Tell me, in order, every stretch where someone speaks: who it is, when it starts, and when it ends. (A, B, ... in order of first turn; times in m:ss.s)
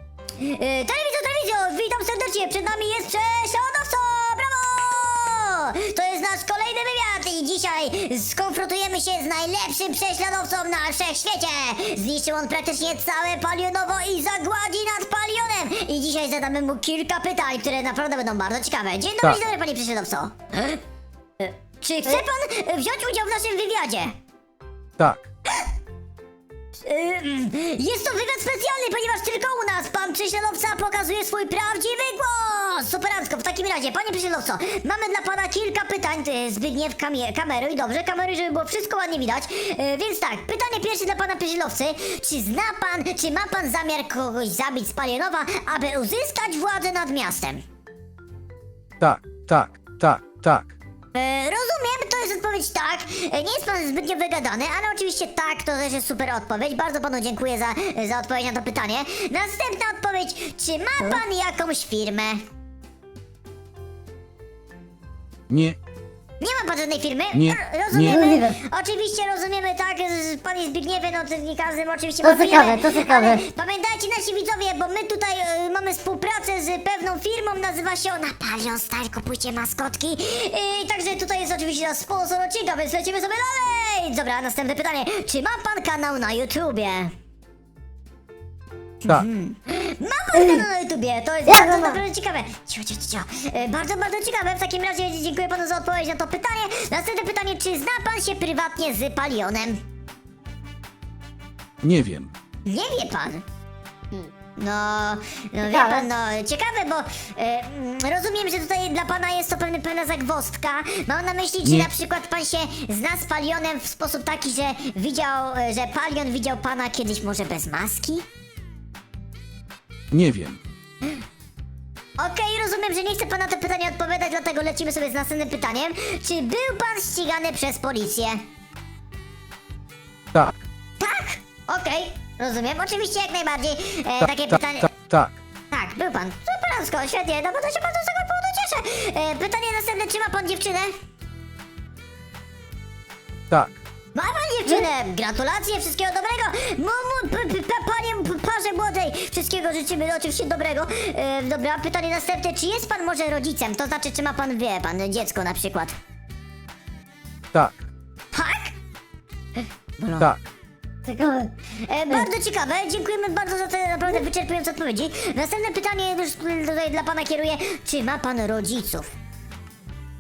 0:00.4-0:20.8 A
0:21.4-0:24.1 A
0:26.8-0:47.6 A
0:49.0-0:50.6 B
0:51.1-1:02.4 A
1:05.5-1:05.8 B
1:06.4-1:27.1 A
1:08.1-1:08.6 C
1:12.2-1:13.4 C
1:29.0-1:39.8 A
1:31.4-1:32.0 C
1:41.8-1:42.3 B
1:42.6-1:43.4 A
1:44.6-1:58.2 A
1:45.6-1:46.1 C
2:00.1-2:00.6 B
2:02.2-2:08.4 A
2:11.0-2:15.1 A
2:15.7-2:20.9 A
2:24.1-2:36.0 A
2:38.3-2:38.7 A
2:40.0-2:40.4 A
2:41.0-2:41.5 C
2:41.8-2:49.1 A